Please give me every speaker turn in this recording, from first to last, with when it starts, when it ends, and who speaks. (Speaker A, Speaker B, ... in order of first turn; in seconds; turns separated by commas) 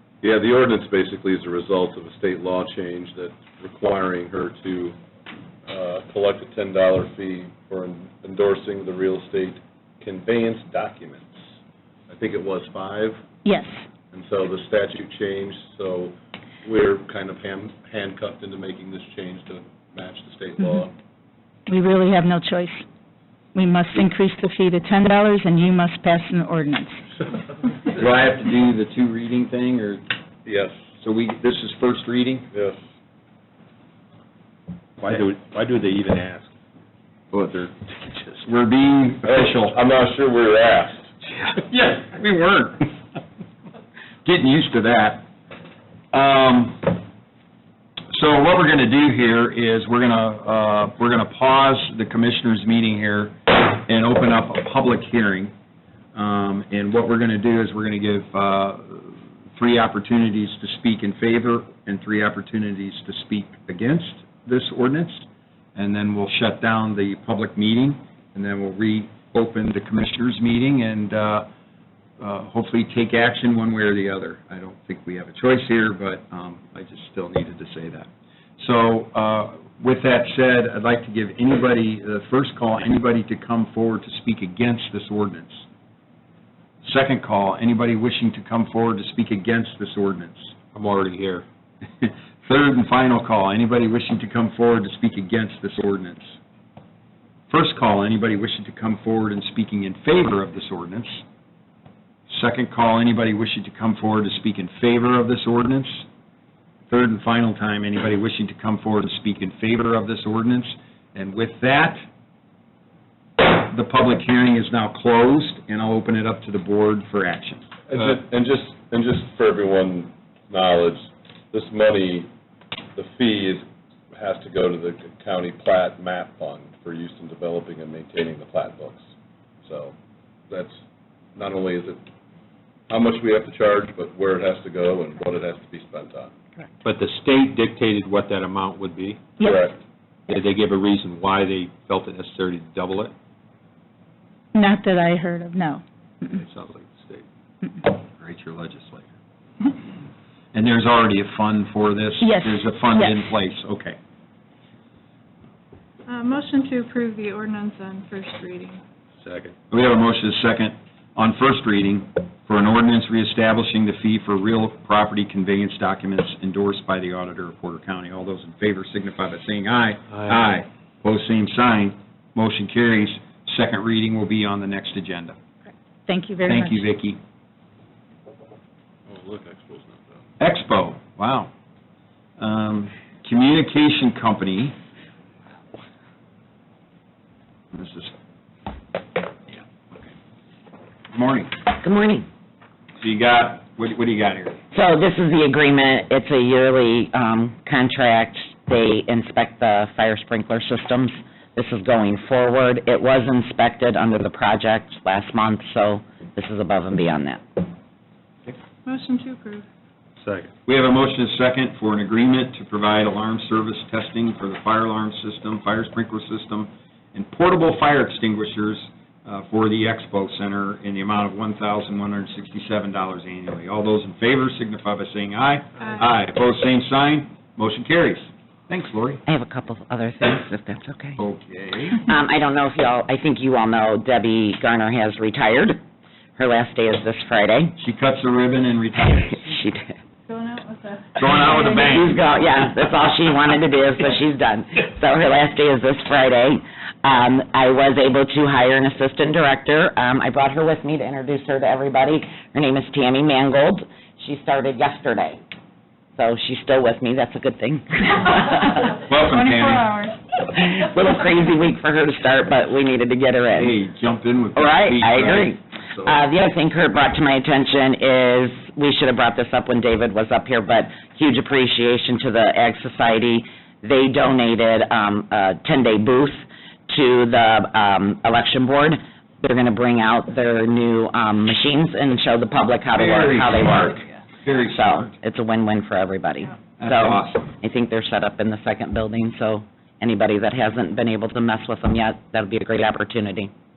Speaker A: 0.2-5.0, Speaker A: 5.7-11.4, Speaker A: 12.1-13.2, Speaker B: 13.4-13.8, Speaker A: 14.1-20.9, Speaker B: 21.7-22.8, Speaker B: 23.5-27.0, Speaker C: 27.9-30.0, Speaker A: 30.4-30.7, Speaker C: 31.0-32.5, Speaker A: 32.5-32.8, Speaker D: 35.0-36.5, Speaker C: 37.3-37.7, Speaker C: 38.4-39.8, Speaker A: 39.4-41.1, Speaker C: 41.4-42.9, Speaker C: 44.2-45.3, Speaker C: 46.1-47.0, Speaker C: 48.1-55.5, Speaker C: 56.1-65.2, Speaker C: 65.8-71.5, Speaker C: 72.2-85.6, Speaker C: 86.8-90.5, Speaker D: 90.7-91.5, Speaker C: 92.0-96.4, Speaker C: 97.5-101.2, Speaker C: 102.3-106.0, Speaker C: 106.9-112.0, Speaker C: 113.4-117.7, Speaker A: 117.9-122.3, Speaker A: 123.0-123.6, Speaker A: 124.1-129.0, Speaker A: 129.6-129.9, Speaker A: 130.5-130.8, Speaker A: 131.3-132.0, Speaker A: 132.9-136.3, Speaker D: 136.8-139.4, Speaker A: 139.4-139.8, Speaker D: 140.3-143.1, Speaker B: 144.5-146.4, Speaker D: 146.2-147.2, Speaker C: 148.1-149.1, Speaker C: 150.5-154.0, Speaker B: 152.2-153.2, Speaker E: 156.1-158.8, Speaker D: 159.2-159.5, Speaker C: 159.7-175.3, Speaker B: 176.1-176.8, Speaker C: 176.4-177.2, Speaker A: 179.1-180.2, Speaker C: 180.4-181.5, Speaker C: 182.4-184.7, Speaker C: 187.7-188.1, Speaker C: 189.5-190.1, Speaker C: 191.1-191.6, Speaker F: 191.7-192.3, Speaker C: 193.0-194.6, Speaker F: 194.7-207.6, Speaker E: 208.8-209.6, Speaker D: 210.2-210.5, Speaker C: 210.7-229.2, Speaker F: 229.3-231.2, Speaker C: 231.2-232.0, Speaker F: 232.0-235.8, Speaker F: 236.3-237.8, Speaker C: 237.8-239.5, Speaker F: 239.0-239.9, Speaker E: 240.3-241.9, Speaker C: 241.1-242.2, Speaker F: 241.8-255.4, Speaker F: 256.2-259.0, Speaker C: 259.0-259.9, Speaker E: 259.3-260.2, Speaker F: 260.4-263.7, Speaker C: 263.5-266.2, Speaker F: 264.5-284.0, Speaker C: 282.9-285.1, Speaker F: 284.7-293.5, Speaker C: 286.8-287.5